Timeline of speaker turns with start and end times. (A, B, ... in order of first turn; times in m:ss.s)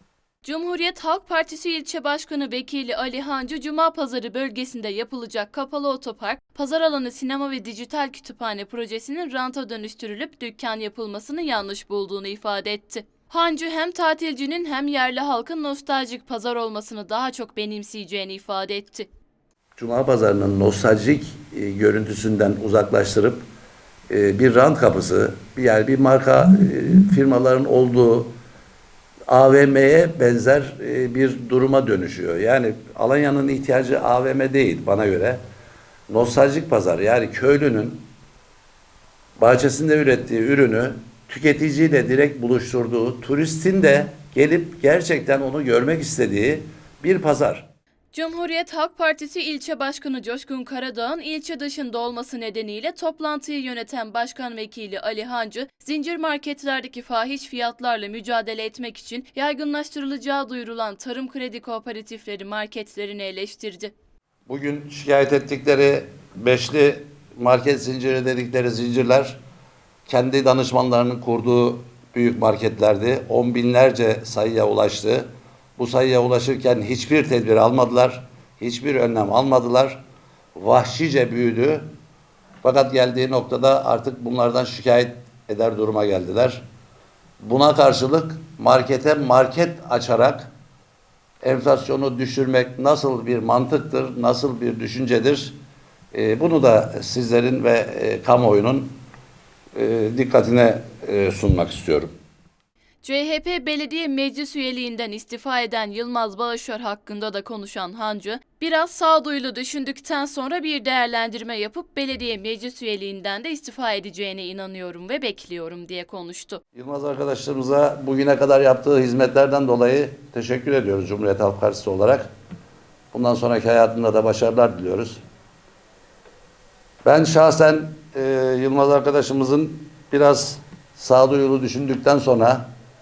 0:00.4-0:19.1 A
0:19.8-0:23.4 B
0:24.1-0:28.3 B
0:29.3-0:35.4 B
0:36.1-0:38.0 B
0:39.4-0:47.7 B
0:48.1-1:03.9 A
1:04.5-1:09.4 B
1:10.1-1:20.0 B
1:20.6-1:21.9 B
1:22.6-1:26.6 B
1:27.4-1:30.5 B
1:31.4-1:35.6 B
1:36.1-1:39.0 B
1:39.8-1:42.1 B
1:43.0-1:56.6 A
1:56.8-2:02.3 B
2:03.1-2:05.2 B
2:07.0-2:12.7 B